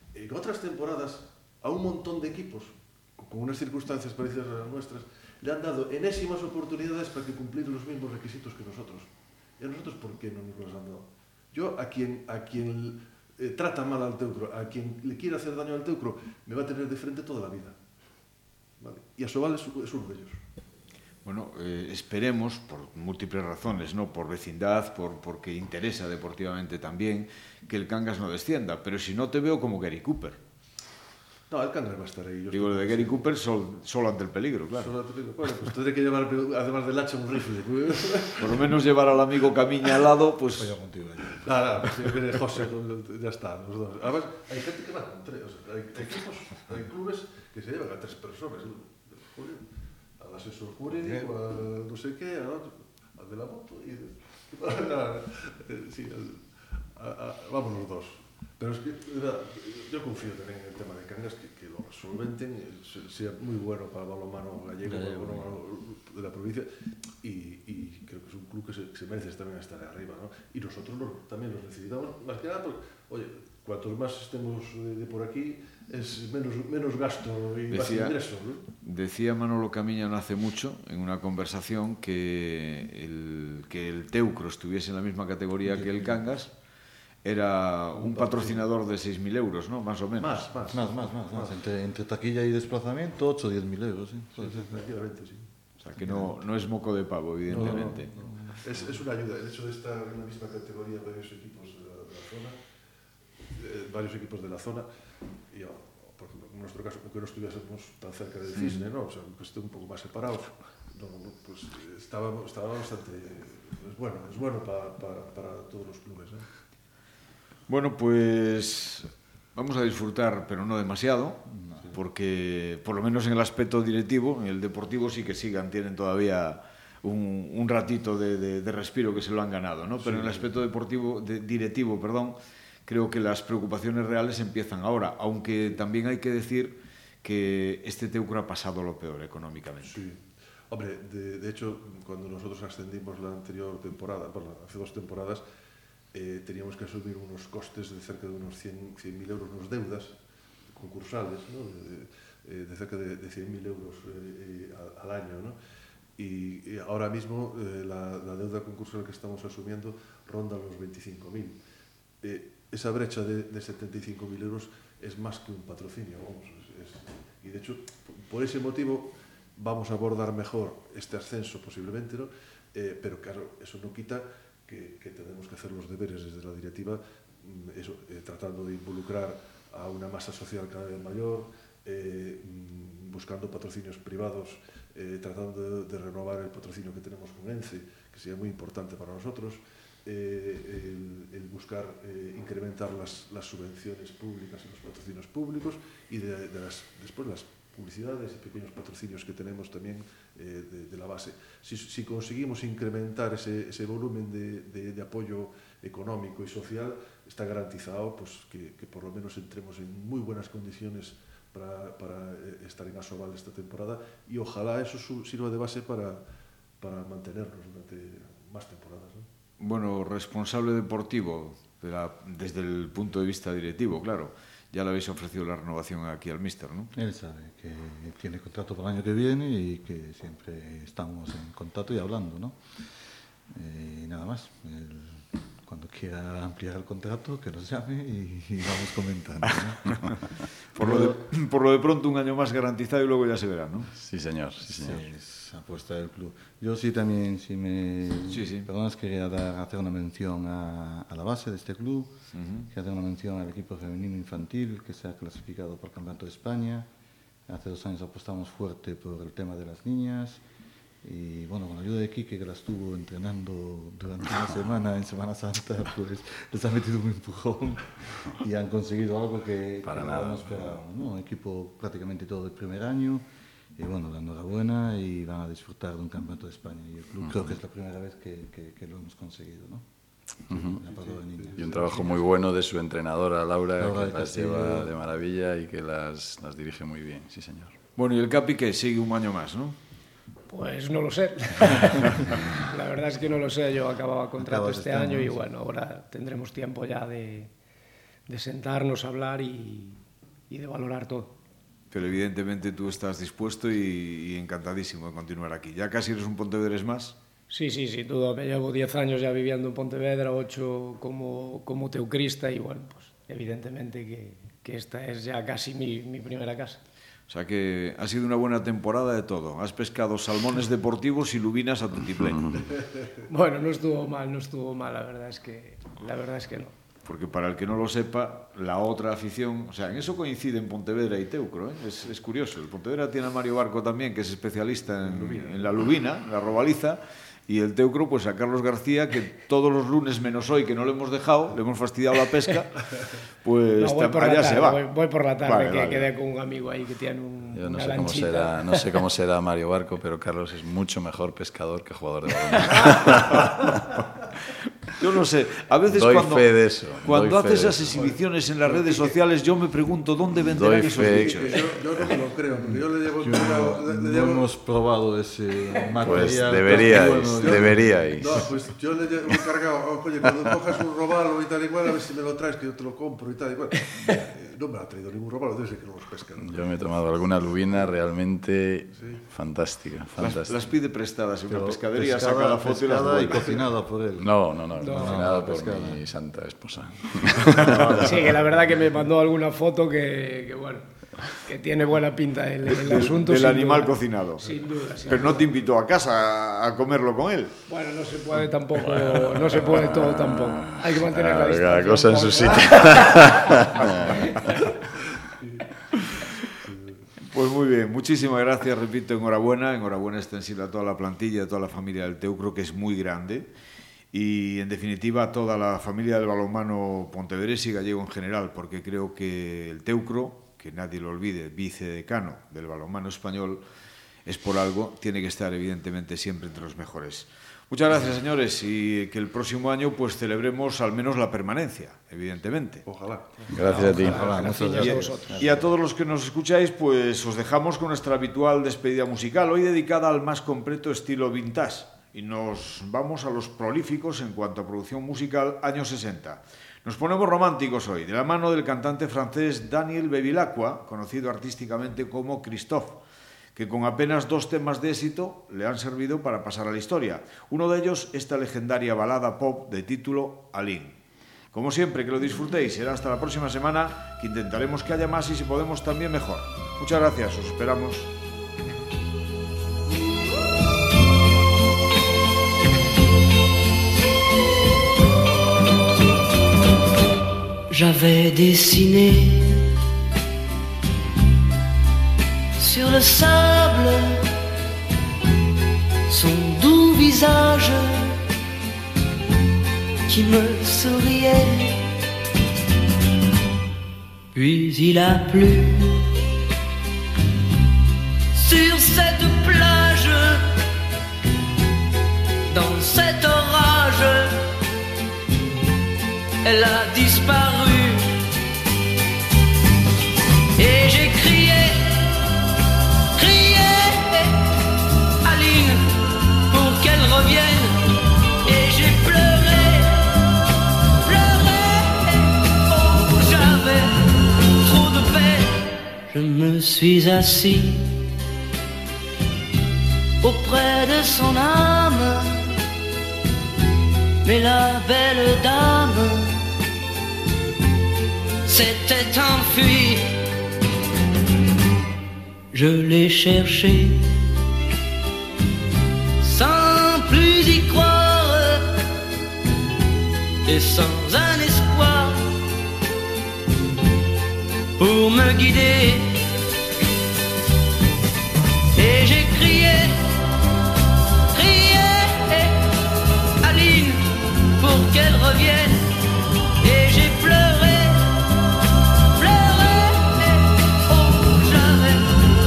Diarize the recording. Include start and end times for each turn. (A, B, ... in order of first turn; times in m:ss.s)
0:00.1-0:17.8 A
0:18.8-0:20.4 A
0:21.2-0:30.4 B
0:31.5-0:33.3 A
0:32.5-0:34.9 B
0:34.8-0:38.7 A
0:38.4-0:40.8 B
0:40.6-0:41.9 C
0:41.4-0:49.7 A
0:50.2-1:06.7 A
1:04.8-1:05.6 C
1:07.2-1:18.7 A
1:17.7-1:18.2 B
1:18.8-1:26.5 B
1:27.2-1:30.5 B
1:28.0-1:28.7 A
1:30.2-1:31.6 A
1:30.7-1:34.8 C
1:34.4-1:35.5 A
1:35.8-1:38.1 B
1:36.0-1:36.3 C
1:37.5-1:38.6 C
1:37.5-1:42.6 A
1:43.5-1:44.9 A
1:45.5-1:56.5 A
1:48.5-1:48.8 B
1:57.7-2:20.0 B
2:01.6-2:01.8 C
2:10.0-2:10.5 A
2:19.8-2:25.4 A
2:26.1-2:30.2 A
2:30.7-2:35.6 A
2:36.2-2:41.6 A
2:42.2-3:36.2 A
3:36.8-3:39.3 A
3:39.6-3:46.9 B
3:46.9-3:52.6 C
3:53.5-4:01.2 C
4:00.7-4:03.9 B
4:04.0-4:05.0 D
4:04.7-4:12.2 C
4:08.3-4:08.7 B
4:12.3-4:12.7 B
4:12.7-4:16.9 C
4:17.5-4:20.4 C
4:21.0-4:33.2 C
4:29.8-4:30.7 D
4:33.8-4:39.9 C
4:37.2-4:37.5 D
4:40.5-4:42.2 C
4:40.5-4:40.8 D
4:40.8-4:42.0 A
4:41.6-4:47.8 D
4:43.8-4:44.9 C
4:48.0-4:49.8 B
4:50.5-4:57.5 E
4:54.4-4:55.5 C
4:58.3-5:01.3 E
5:01.9-5:07.2 B
5:07.5-5:16.8 E
5:17.3-5:22.6 B
5:22.3-5:22.8 D
5:23.3-5:26.8 E
5:27.0-5:42.9 B
5:35.1-5:35.9 A
5:43.4-5:44.8 B
5:43.8-5:48.9 E
5:45.4-5:46.1 B
5:47.5-5:54.0 D
5:54.9-6:01.7 B
5:55.9-5:57.8 D
5:57.9-5:59.0 A
6:00.4-6:01.6 D
6:01.0-6:04.4 A
6:02.6-6:08.0 C
6:06.0-6:08.5 D
6:06.7-6:17.2 A
6:16.4-6:20.6 D
6:19.0-6:19.2 A
6:20.2-6:23.6 B
6:21.5-6:26.0 C
6:24.2-6:28.1 D
6:24.8-6:25.4 E
6:27.4-6:28.4 C
6:28.0-6:35.5 E
6:32.6-6:37.6 B
6:37.7-6:44.7 E
6:39.2-6:44.7 D
6:45.4-6:45.8 A
6:46.6-6:47.0 A
6:47.3-6:53.5 B
6:54.1-7:03.6 B
7:04.2-7:12.8 B
7:12.9-7:14.5 A
7:13.5-7:14.2 D
7:13.6-7:15.7 C
7:13.7-7:15.4 E
7:14.6-7:33.0 B
7:33.6-7:41.0 B
7:41.5-7:48.1 B
7:57.7-7:59.7 F
8:02.6-8:04.3 F
8:06.1-8:08.2 F
8:10.1-8:11.8 F
8:14.3-8:16.0 F
8:18.3-8:20.5 F
8:22.5-8:24.4 F
8:26.4-8:28.1 F
8:30.6-8:32.1 F
8:33.1-8:34.4 F
8:35.2-8:35.9 F
8:36.5-8:37.8 F
8:38.4-8:40.2 F
8:41.0-8:48.0 F
8:50.2-8:52.6 F
8:54.2-8:56.4 F
8:58.4-9:00.1 F
9:02.5-9:04.1 F
9:06.2-9:08.7 F
9:10.5-9:12.3 F
9:14.8-9:16.2 F
9:18.8-9:20.0 F
9:21.3-9:22.6 F
9:23.4-9:25.9 F
9:26.6-9:28.0 F
9:29.2-9:32.1 F